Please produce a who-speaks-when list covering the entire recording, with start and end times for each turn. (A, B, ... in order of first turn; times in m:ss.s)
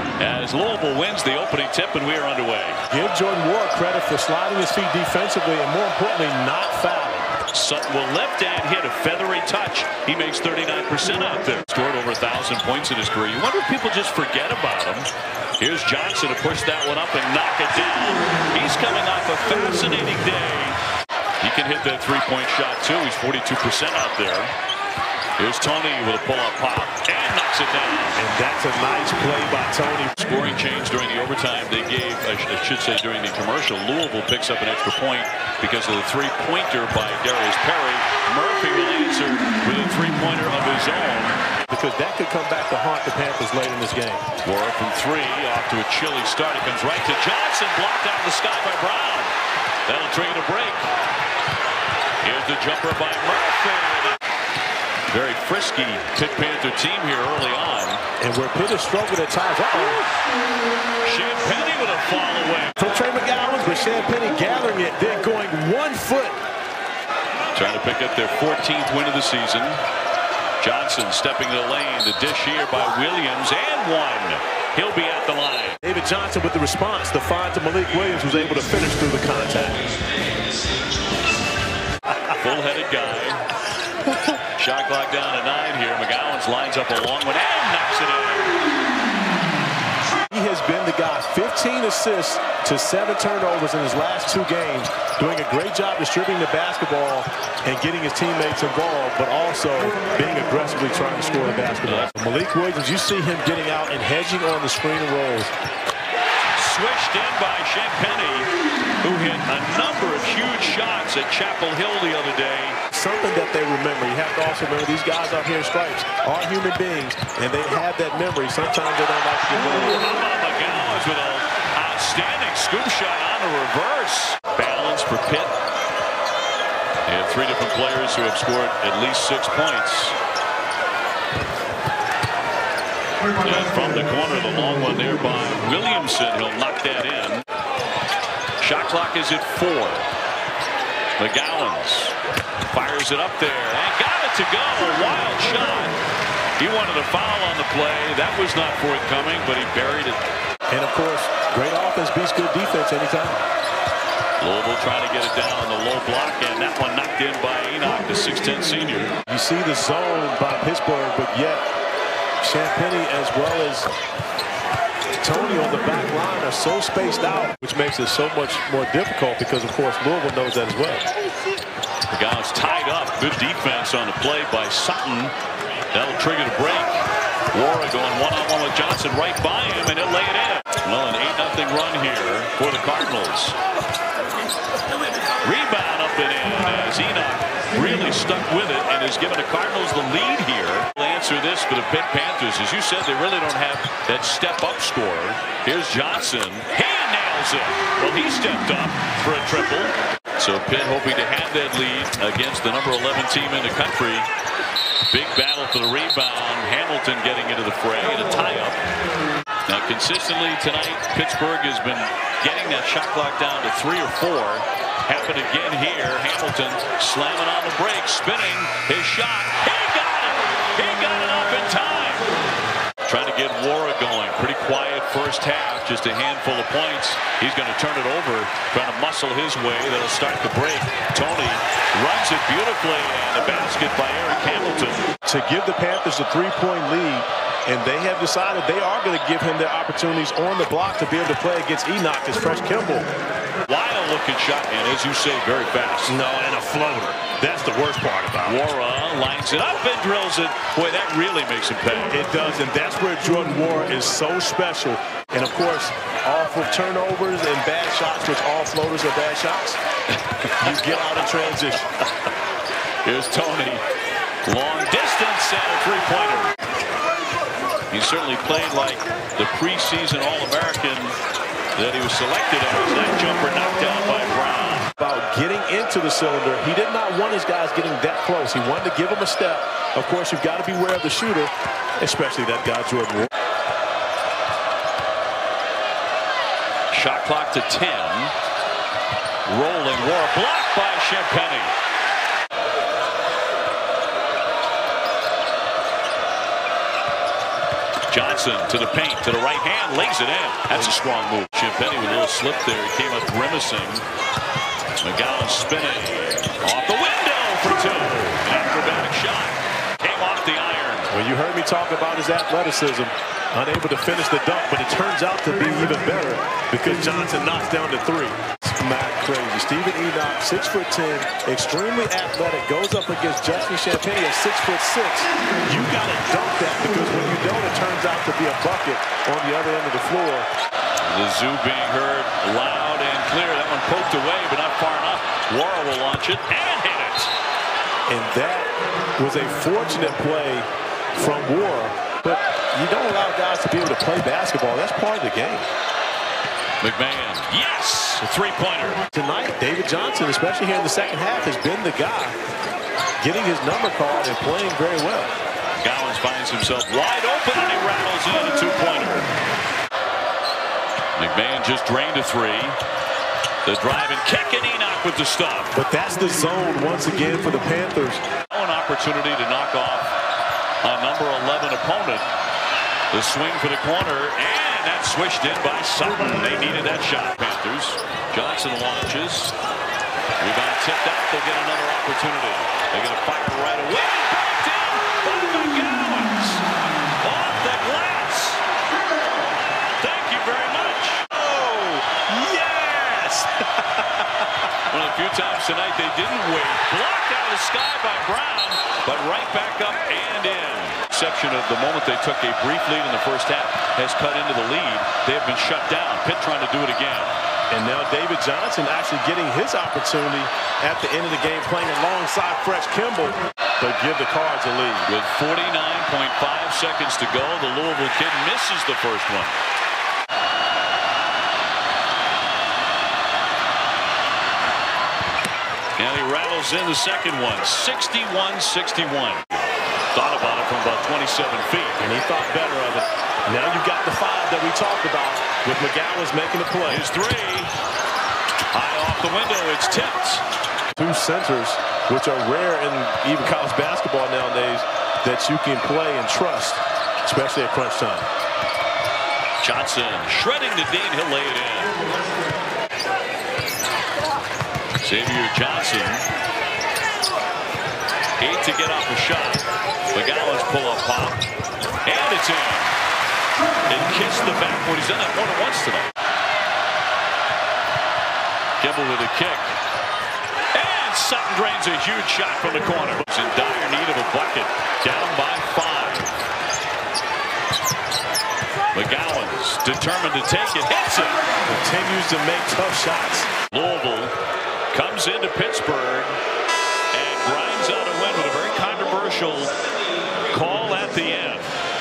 0:00.2-0:02.8 A
0:02.9-0:07.3 B
0:07.5-0:15.1 A
0:15.6-0:20.8 A
0:21.4-0:24.5 A
0:25.4-0:28.2 A
0:28.2-0:30.2 B
0:30.2-0:41.4 A
0:41.7-0:44.3 B
0:44.4-0:49.3 A
0:49.9-0:50.9 A
0:52.2-0:54.2 A
0:55.1-0:58.0 A
0:58.2-1:00.0 B
1:01.0-1:02.8 A
1:02.8-1:06.4 B
1:07.5-1:09.8 A
1:10.6-1:15.8 A
1:15.8-1:20.0 B
1:22.4-1:23.4 A
1:24.5-1:28.6 A
1:30.3-1:45.5 B
1:41.8-1:42.1 A
1:46.6-1:48.5 A
1:49.0-1:52.8 A
1:52.9-2:00.0 B
1:59.5-2:05.5 A
2:07.1-2:10.2 A
2:13.4-2:17.4 A
2:18.6-2:20.1 A
2:21.2-2:26.0 A
2:26.6-2:30.2 A
2:30.7-2:33.4 B
2:34.4-2:39.2 A
2:39.3-2:41.6 B
2:42.4-2:43.9 B
2:45.2-2:51.0 B
2:52.1-2:55.3 A
2:55.9-2:57.0 A
2:57.5-3:03.6 A
3:05.4-3:24.3 A
3:25.1-3:28.8 A
3:29.7-3:42.3 A
3:43.1-3:55.0 A
3:55.3-4:03.1 B
4:03.7-4:06.2 A
4:06.1-4:08.6 B
4:08.4-4:12.1 A
4:12.1-4:19.8 B
4:20.2-4:20.9 A
4:20.6-4:21.8 B
4:23.0-4:23.8 A
4:24.4-4:26.5 A
4:27.9-4:31.2 A
4:31.8-4:34.9 A
4:35.0-4:43.3 B
4:46.9-4:48.3 A
4:49.5-4:51.7 A
4:58.1-5:04.0 A
5:05.0-5:11.1 A
5:11.1-5:30.5 B
5:31.0-5:37.3 A
5:38.1-5:45.7 B
5:46.8-5:49.0 A
5:49.1-5:52.4 B
5:53.2-5:55.3 B
5:55.8-5:59.3 A
6:01.2-6:02.8 A
6:03.6-6:05.7 A
6:05.7-6:08.2 B
6:08.5-6:10.1 A
6:10.8-6:12.3 A
6:13.1-6:19.6 A
6:20.4-6:26.6 A
6:27.2-6:28.6 A
6:30.0-6:31.3 A
6:31.3-6:34.2 B
6:34.9-6:47.4 A
6:47.7-6:55.1 B
6:55.1-6:59.6 A
7:06.0-7:09.6 A
7:10.1-7:12.0 A
7:12.0-7:17.1 B
7:16.9-7:17.7 A
7:18.7-7:20.4 A
7:21.0-7:28.3 B
7:29.6-7:32.0 A
7:35.0-7:36.3 A
7:38.4-7:41.4 A
7:42.0-7:42.9 A
7:43.9-7:46.1 A
7:48.8-7:49.8 A
7:50.7-7:56.4 A
7:58.9-8:01.4 A
8:01.7-8:03.5 B
8:03.7-8:04.3 A
8:04.9-8:06.4 A
8:07.1-8:09.7 A
8:10.5-8:11.7 A